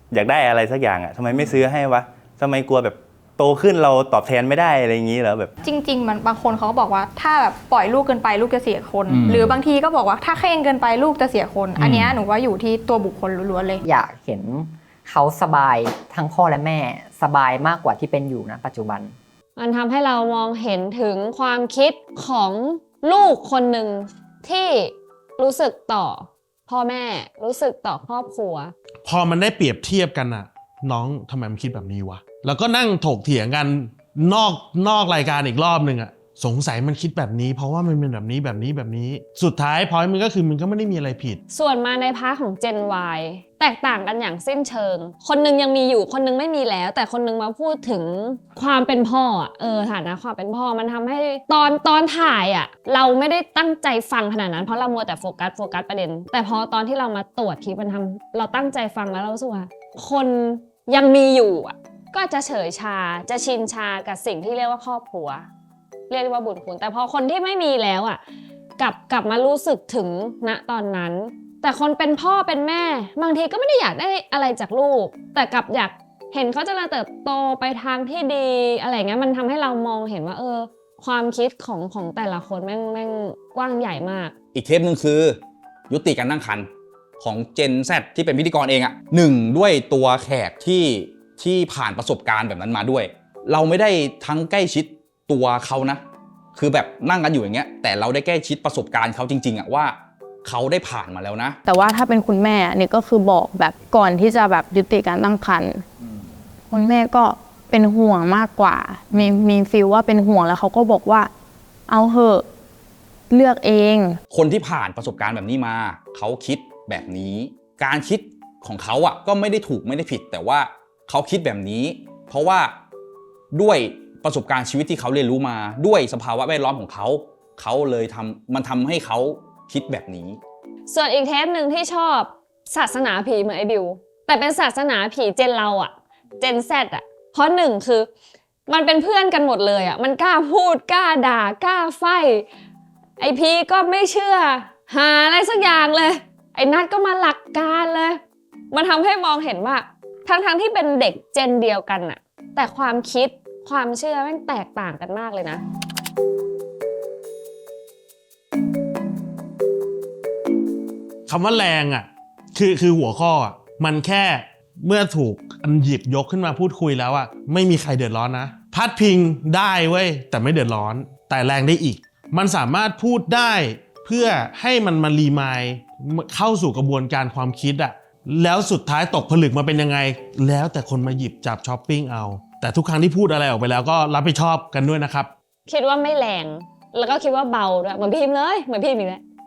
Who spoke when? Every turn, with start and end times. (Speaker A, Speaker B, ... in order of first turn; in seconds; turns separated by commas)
Speaker A: 0.1-5.5, Speaker B: 5.6-13.8, Speaker C: 13.8-19.1, Speaker D: 19.6-28.7, Speaker E: 29.1-41.4, Speaker D: 41.5-65.5, Speaker D: 66.1-68.2, Speaker D: 68.8-84.3, Speaker F: 84.5-85.4, Speaker F: 85.9-86.7, Speaker F: 87.2-96.0, Speaker F: 96.5-101.6, Speaker G: 101.7-105.8, Speaker G: 106.7-111.3, Speaker G: 111.9-112.4, Speaker G: 113.3-114.2, Speaker F: 114.3-122.7, Speaker F: 123.5-130.4, Speaker D: 130.9-138.1, Speaker D: 138.7-142.5, Speaker D: 143.2-148.2, Speaker D: 148.7-155.6, Speaker E: 161.3-185.3, Speaker D: 185.7-189.2